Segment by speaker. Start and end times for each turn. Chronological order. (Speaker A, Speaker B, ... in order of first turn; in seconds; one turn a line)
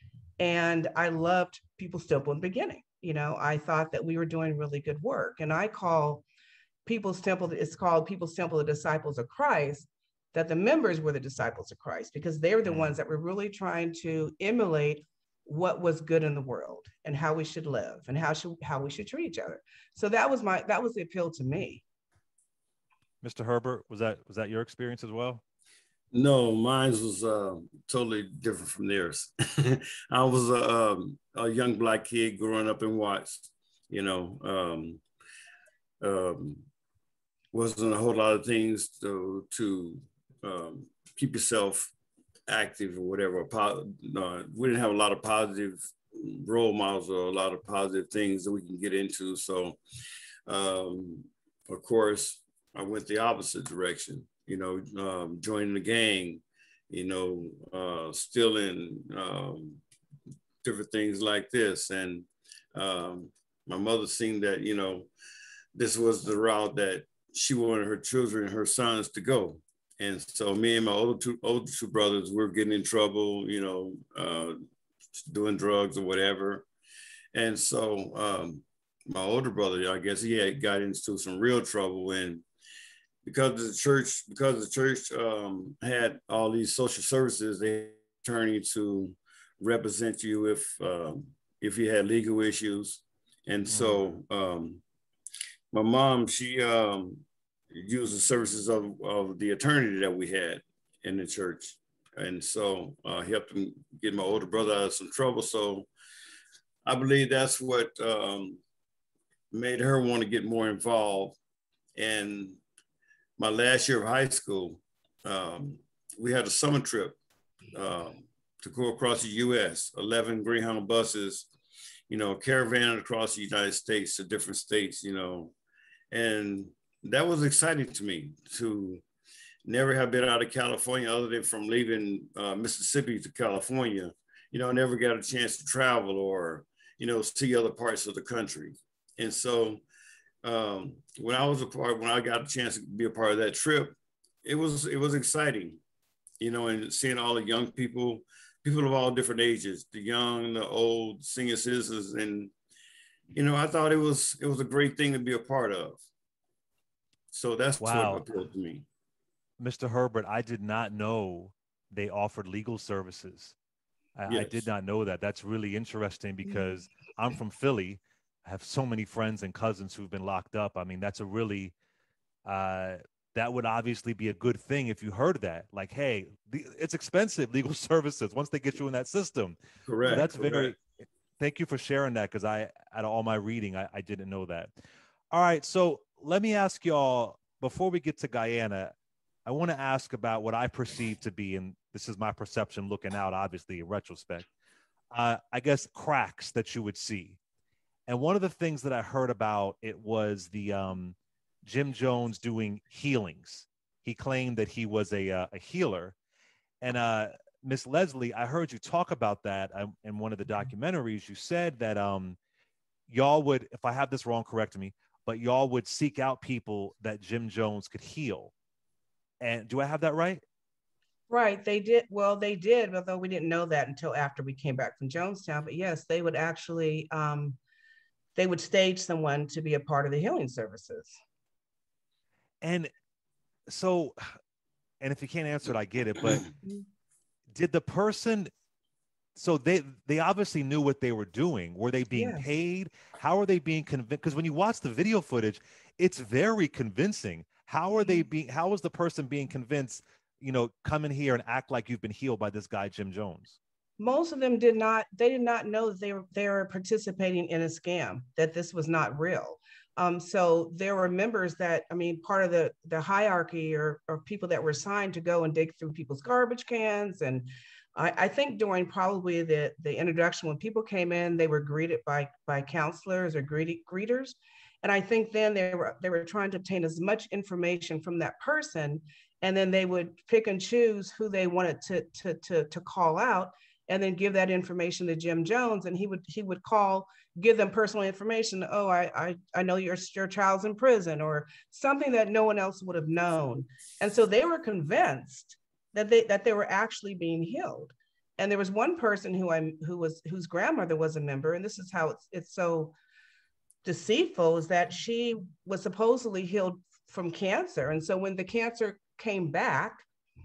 Speaker A: 0.4-6.2
Speaker A: 6.8-21.8
Speaker B: 12.7-12.9
Speaker B: 23.2-25.4
Speaker C: 26.1-35.0
Speaker C: 36.0-36.6
Speaker C: 37.5-41.9
Speaker C: 42.5-49.8
Speaker C: 50.5-59.8
Speaker C: 60.6-65.1
Speaker C: 65.7-74.6
Speaker C: 75.2-76.7
Speaker C: 77.3-82.4
Speaker C: 83.2-94.8
Speaker B: 93.7-94.0
Speaker C: 95.7-105.9
Speaker C: 106.8-108.6
Speaker C: 109.5-111.4
Speaker C: 112.0-112.6
Speaker C: 113.4-117.2
Speaker C: 117.7-121.5
Speaker C: 122.1-125.5
Speaker C: 126.1-129.0
Speaker C: 129.6-139.8
Speaker C: 140.4-145.8
Speaker C: 146.4-152.5
Speaker C: 153.3-156.0
Speaker C: 157.3-158.8
Speaker B: 157.8-158.2
Speaker B: 159.6-163.5
Speaker B: 164.2-171.7
Speaker C: 164.3-164.6
Speaker B: 172.4-180.8
Speaker C: 179.8-180.7
Speaker B: 181.4-184.7
Speaker B: 185.3-188.9
Speaker B: 189.4-194.5
Speaker B: 195.1-197.4
Speaker B: 198.1-206.1
Speaker B: 206.8-212.4
Speaker B: 213.1-218.5
Speaker B: 219.4-220.4
Speaker A: 221.3-227.6
Speaker A: 228.3-231.1
Speaker B: 232.6-232.9
Speaker B: 233.7-234.3
Speaker B: 235.0-236.5
Speaker B: 237.5-238.5
Speaker B: 239.3-253.6
Speaker A: 242.1-242.4
Speaker A: 248.0-248.3
Speaker A: 254.0-302.9
Speaker A: 303.8-310.0